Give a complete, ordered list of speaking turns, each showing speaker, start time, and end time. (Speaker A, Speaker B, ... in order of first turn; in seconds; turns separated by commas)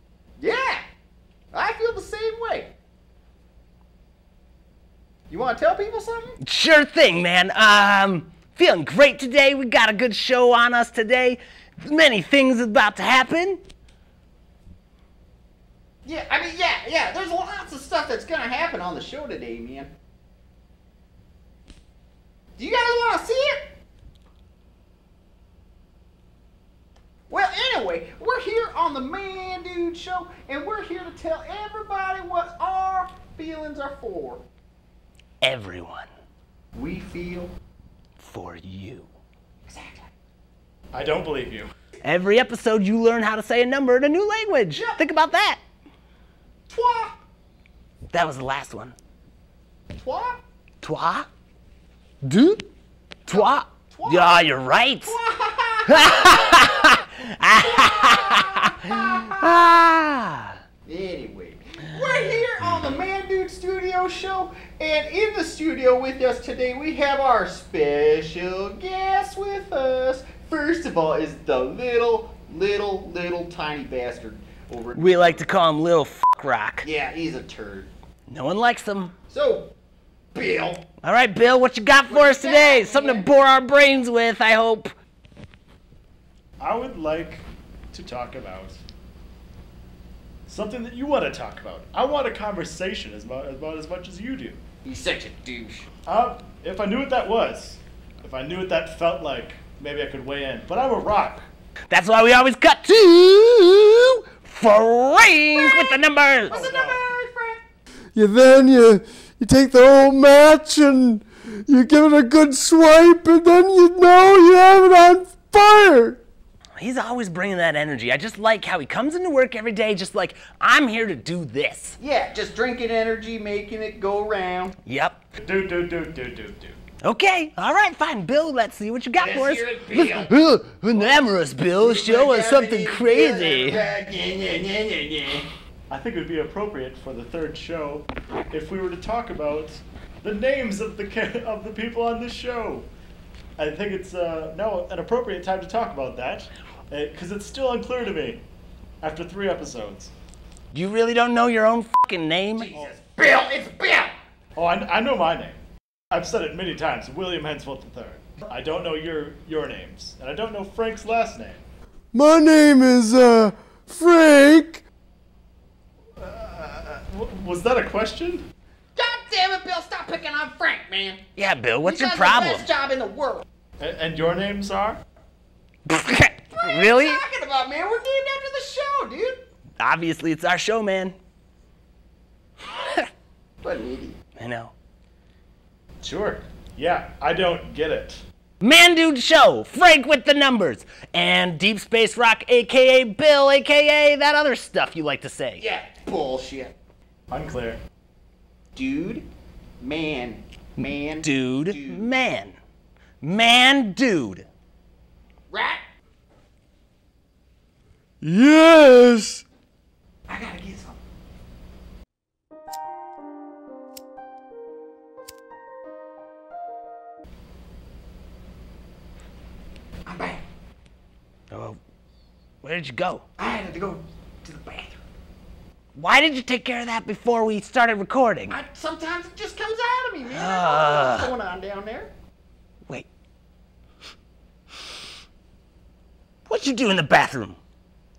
Speaker A: 0.4-0.8, Speaker A: 1.5-2.7, Speaker A: 5.3-6.4, Speaker B: 6.4-13.6, Speaker A: 16.0-19.9, Speaker A: 22.6-23.7, Speaker A: 27.3-34.4, Speaker B: 35.4-36.1, Speaker A: 36.7-37.5, Speaker B: 38.2-39.1, Speaker A: 39.6-40.1, Speaker C: 40.9-41.7, Speaker B: 42.0-45.6, Speaker A: 44.7-45.0, Speaker A: 46.7-47.2, Speaker B: 48.1-49.0, Speaker A: 49.9-50.4, Speaker B: 50.8-51.3, Speaker B: 52.2-52.6, Speaker B: 53.2-55.1, Speaker A: 53.3-54.5, Speaker A: 55.0-59.6, Speaker B: 55.9-60.6, Speaker A: 60.9-75.5, Speaker B: 74.9-76.8, Speaker A: 76.8-77.9, Speaker B: 78.3-79.1, Speaker A: 79.3-79.7, Speaker A: 80.3-80.9, Speaker B: 81.0-84.9, Speaker A: 82.1-83.3, Speaker C: 86.6-88.8, Speaker C: 90.5-94.6, Speaker A: 94.8-95.9, Speaker C: 96.0-101.4, Speaker B: 101.9-106.6, Speaker A: 105.5-107.6, Speaker C: 106.5-107.0, Speaker D: 108.1-116.2, Speaker B: 116.8-122.0, Speaker A: 122.0-124.8, Speaker B: 124.8-125.2, Speaker C: 125.4-126.8, Speaker B: 127.0-133.8, Speaker A: 129.2-130.3, Speaker A: 131.0-135.5, Speaker C: 135.9-142.9, Speaker C: 143.6-148.4, Speaker C: 149.0-150.1, Speaker B: 150.7-152.7, Speaker A: 152.6-154.1, Speaker C: 154.6-155.6, Speaker C: 156.1-161.6, Speaker D: 162.1-164.8, Speaker C: 166.2-168.4, Speaker A: 168.9-171.2, Speaker B: 171.3-172.7, Speaker A: 171.8-173.4, Speaker C: 173.8-175.0, Speaker B: 175.9-177.2, Speaker A: 176.5-179.4, Speaker B: 179.8-181.1, Speaker B: 182.8-183.0, Speaker A: 183.6-184.2, Speaker B: 184.3-184.7, Speaker C: 186.0-188.2, Speaker B: 188.6-195.6, Speaker A: 195.6-196.7, Speaker C: 197.3-197.8, Speaker A: 198.7-199.3, Speaker A: 199.8-202.1, Speaker B: 201.2-202.6, Speaker B: 203.2-204.4, Speaker A: 205.5-205.8, Speaker D: 208.2-209.4, Speaker A: 210.3-211.0, Speaker A: 220.0-220.4, Speaker B: 221.5-221.8, Speaker B: 222.6-223.2, Speaker A: 223.4-225.0, Speaker B: 225.9-228.6, Speaker A: 228.5-232.1, Speaker B: 230.3-231.3, Speaker B: 236.5-237.6